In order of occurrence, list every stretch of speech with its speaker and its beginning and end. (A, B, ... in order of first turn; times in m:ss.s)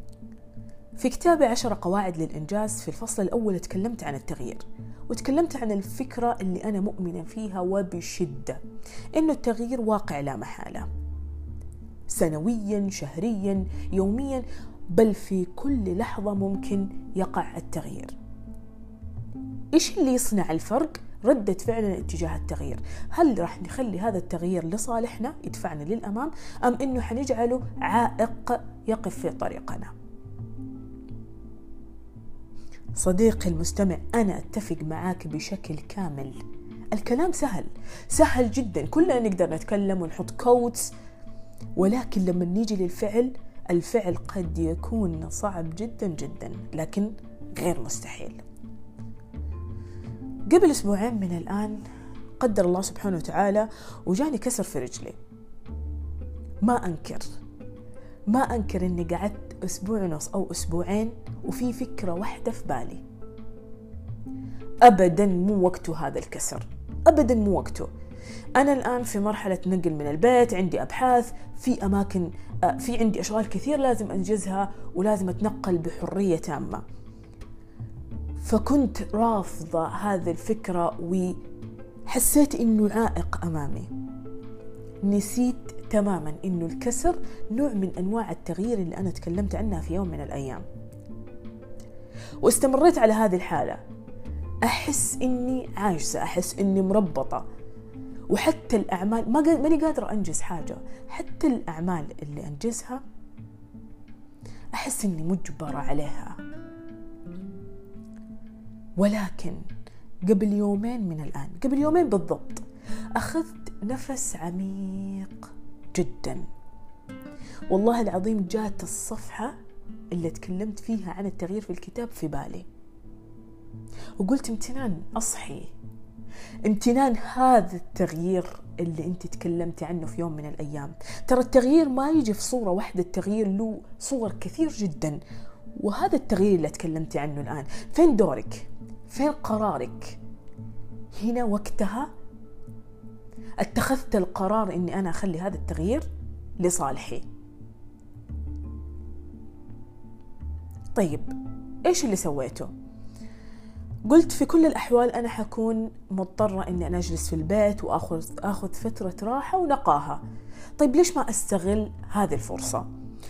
0:01.0-0:08.6 A
0:09.1-0:10.9 A
0:12.1-0:18.1 A
0:19.7-0:29.9 A
0:33.0-0:36.4 A
0:36.9-0:40.9 A
0:41.8-0:48.4 A
0:50.5-0:51.8 A
0:52.4-0:55.2 A
0:56.6-0:57.3 A
0:58.3-1:03.0 A
1:04.8-1:07.9 A
1:08.6-1:16.8 A
1:18.4-1:21.4 A
1:22.1-1:23.9 A
1:25.0-1:30.6 A
1:32.4-1:33.8 A
1:34.6-1:37.4 A
1:38.3-1:43.0 A
1:44.7-1:46.4 A
1:49.0-1:49.6 A
1:50.3-1:52.6 A
1:53.2-1:56.5 A
1:57.7-1:59.5 A
2:00.1-2:02.7 A
2:04.2-2:05.7 A
2:06.6-2:15.2 A
2:15.8-2:20.2 A
2:21.2-2:22.1 A
2:23.6-2:26.1 A
2:26.6-2:27.2 A
2:30.9-2:31.3 A
2:31.8-2:32.7 A
2:34.1-2:40.2 A
2:40.8-2:42.9 A